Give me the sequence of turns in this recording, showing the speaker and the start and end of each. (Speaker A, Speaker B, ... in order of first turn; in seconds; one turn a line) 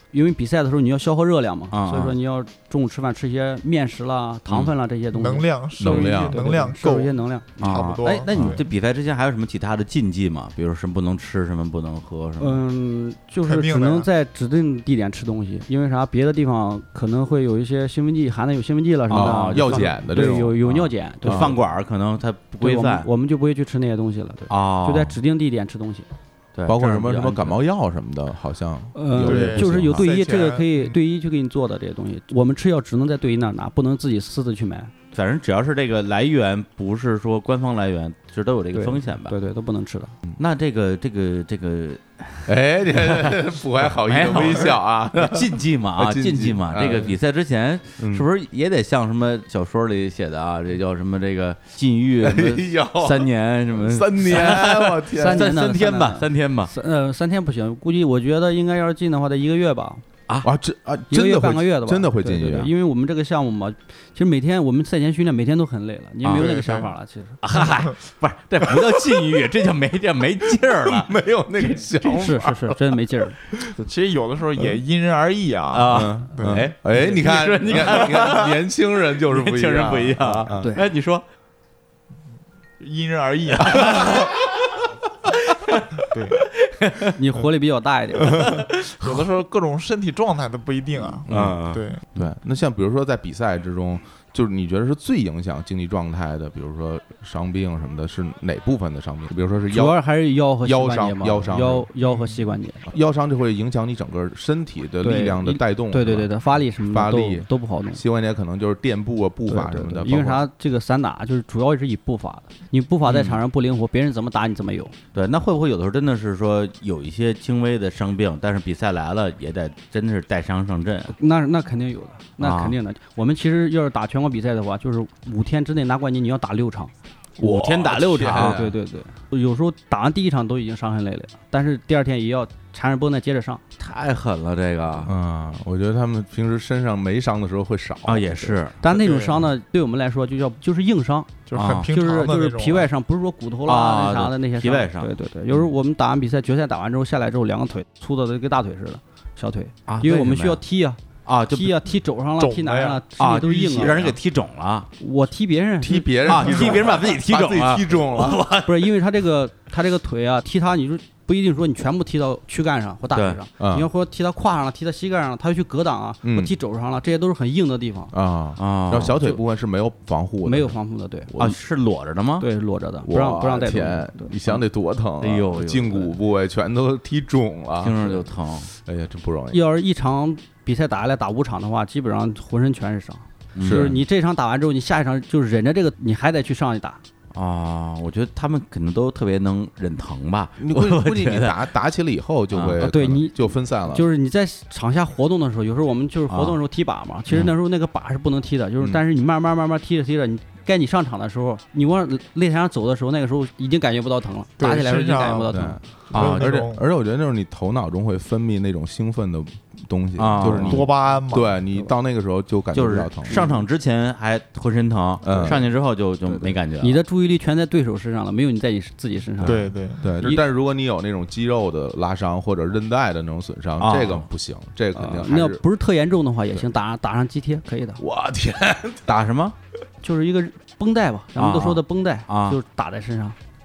Speaker A: 0.1-7.6
Speaker B: 1.7-2.1
Speaker C: 5.1-8.6
Speaker D: 5.8-6.5
Speaker B: 7.6-12.6
Speaker D: 8.3-8.6
Speaker A: 12.4-21.6
Speaker C: 13.4-14.1
Speaker D: 19.1-20.6
Speaker B: 19.1-23.1
Speaker D: 21.2-21.6
Speaker A: 22.6-26.1
Speaker B: 24.5-25.2
Speaker B: 26.6-27.4
Speaker D: 26.7-30.1
Speaker A: 28.9-34.9
Speaker C: 29.2-30.9
Speaker B: 35.1-39.3
Speaker A: 38.7-40.1
Speaker B: 40.4-43.4
Speaker D: 42.5-47.2
Speaker B: 44.0-56.7
Speaker D: 48.0-48.3
Speaker D: 52.2-55.5
Speaker A: 55.1-60.0
Speaker D: 60.4-62.7
Speaker A: 61.1-67.4
Speaker B: 66.2-66.6
Speaker C: 66.4-66.9
Speaker B: 67.4-71.1
Speaker D: 70.9-73.0
Speaker A: 72.0-73.4
Speaker D: 73.5-73.7
Speaker C: 73.7-76.7
Speaker B: 75.7-78.6
Speaker D: 75.9-80.7
Speaker A: 76.9-77.2
Speaker B: 79.2-81.2
Speaker A: 80.6-80.8
Speaker C: 82.8-84.3
Speaker B: 83.7-84.5
Speaker B: 85.5-87.1
Speaker C: 86.1-86.4
Speaker A: 87.2-88.5
Speaker B: 88.5-89.2
Speaker C: 89.0-92.0
Speaker D: 91.3-91.6
Speaker B: 91.3-92.3
Speaker D: 92.2-100.0
Speaker A: 99.7-102.9
Speaker D: 100.6-101.9
Speaker D: 102.9-110.5
Speaker A: 105.0-108.0
Speaker A: 109.5-115.0
Speaker B: 113.0-113.4
Speaker B: 115.1-121.2
Speaker A: 121.1-126.9
Speaker B: 122.4-122.8
Speaker D: 127.4-128.8
Speaker B: 127.4-128.6
Speaker A: 128.3-133.6
Speaker B: 133.8-135.1
Speaker D: 135.0-138.5
Speaker B: 138.1-138.8
Speaker A: 138.8-151.0
Speaker C: 138.9-139.4
Speaker C: 141.5-142.9
Speaker B: 141.5-141.9
Speaker B: 143.7-145.1
Speaker B: 149.9-150.6
Speaker B: 151.3-151.8
Speaker A: 151.5-154.0
Speaker C: 152.4-153.0
Speaker B: 153.2-154.9
Speaker D: 153.8-154.1
Speaker A: 155.0-156.7
Speaker D: 155.8-158.4
Speaker B: 156.2-158.9
Speaker A: 158.7-168.1
Speaker D: 163.6-163.9
Speaker D: 166.2-166.5
Speaker D: 168.1-170.8
Speaker B: 168.6-169.2
Speaker A: 170.4-171.3
Speaker D: 171.3-171.6
Speaker B: 171.4-172.5
Speaker A: 172.4-174.3
Speaker D: 173.0-178.3
Speaker B: 175.2-176.2
Speaker B: 177.8-178.7
Speaker D: 178.8-179.6
Speaker A: 179.5-187.0
Speaker B: 183.6-184.0
Speaker D: 183.6-184.0
Speaker B: 187.3-191.7
Speaker D: 190.6-194.1
Speaker B: 192.5-192.8
Speaker A: 192.8-205.8
Speaker B: 196.3-196.6
Speaker C: 204.6-206.8
Speaker D: 205.5-213.4
Speaker B: 206.1-206.5
Speaker B: 210.2-210.9
Speaker C: 210.7-211.6
Speaker B: 212.7-217.0
Speaker A: 213.3-213.6
Speaker D: 215.2-215.6
Speaker A: 216.3-220.4
Speaker D: 219.4-225.6
Speaker C: 219.4-220.2
Speaker B: 223.8-224.3
Speaker A: 224.9-228.0
Speaker D: 228.0-229.1
Speaker B: 229.1-229.6
Speaker A: 230.0-233.4
Speaker B: 231.4-232.6